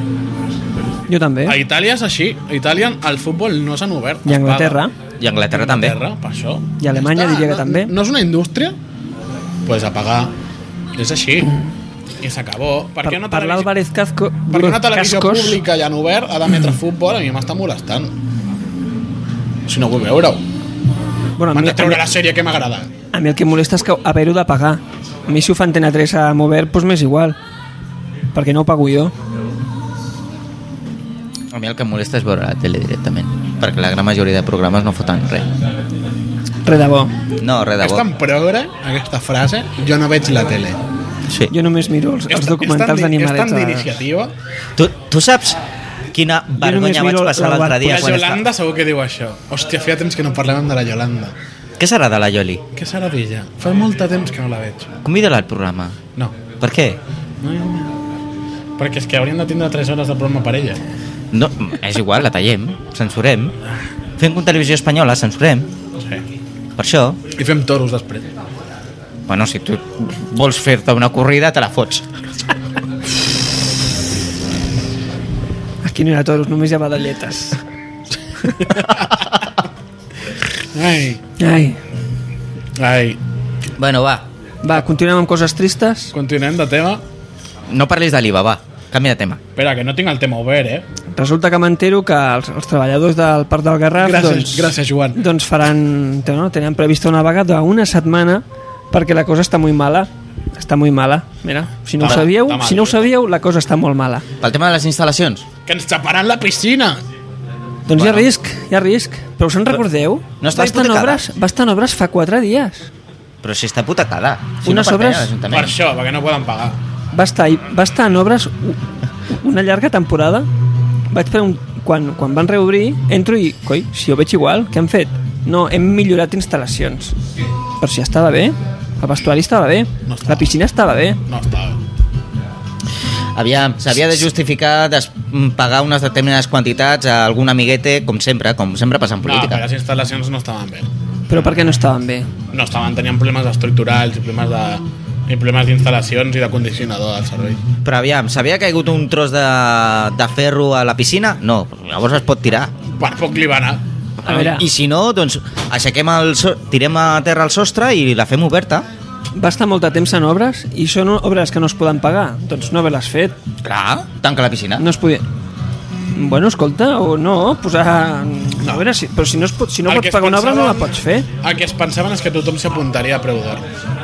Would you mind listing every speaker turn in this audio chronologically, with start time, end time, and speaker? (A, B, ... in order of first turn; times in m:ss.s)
0:01.1-0:01.6 A
0:01.5-0:04.8 B
0:04.3-0:04.9 A
0:05.2-0:06.0 C
0:05.5-0:08.8 B
0:06.8-0:07.9 A
0:09.7-0:10.3 B
0:11.0-0:11.6 B
0:12.2-0:13.7 B
0:13.0-0:15.6 A
0:14.5-0:18.1 B
0:19.7-0:20.4 B
0:21.4-0:22.0 A
0:21.5-0:22.9 B
0:23.1-0:27.4 A
0:28.3-0:29.1 A
0:31.5-0:35.5 C
0:36.6-0:37.1 A
0:37.4-0:38.0 C
0:37.8-0:40.8 B
0:41.5-0:44.0 A
0:42.3-0:44.3 B
0:44.8-0:45.6 C
0:46.1-0:48.4 C
0:46.6-0:48.1 A
0:47.8-0:51.3 B
0:51.8-0:52.6 C
0:52.8-0:54.9 B
0:55.0-0:56.0 C
0:56.6-0:57.0 C
0:57.4-0:57.9 B
0:58.8-1:00.8 B
1:01.3-1:03.5 C
1:04.2-1:05.7 C
1:06.8-1:07.2 C
1:07.4-1:08.3 B
1:09.3-1:12.0 C
1:15.8-1:17.6 A
1:20.7-1:21.2 B
1:21.4-1:21.8 A
1:22.8-1:23.2 B
1:23.8-1:24.3 C
1:24.6-1:26.1 A
1:26.1-1:27.0 B
1:27.7-1:29.4 C
1:29.6-1:30.9 B
1:31.1-1:44.2 A
1:34.0-1:35.2 B
1:42.0-1:43.1 B
1:44.4-1:45.4 C
1:45.7-1:47.0 B
1:47.9-1:52.9 A
1:47.9-1:48.3 C
1:50.4-1:51.2 C
1:53.4-1:55.7 C
1:54.6-1:55.3 A
1:55.5-1:56.8 B
1:57.1-2:00.5 A
2:01.1-2:07.2 A
2:07.8-2:11.2 A
2:10.1-2:10.5 B
2:11.3-2:11.8 B
2:13.4-2:19.6 C
2:19.2-2:20.9 B
2:21.3-2:22.3 A
2:22.5-2:27.6 B
2:27.8-2:32.7 C
2:33.0-2:33.8 B
2:34.2-2:38.9 C
2:34.2-2:34.7 A
2:39.4-2:43.4 A
2:43.6-2:44.8 C
2:44.8-2:45.2 A
2:46.2-2:51.3 A
2:49.9-2:53.6 B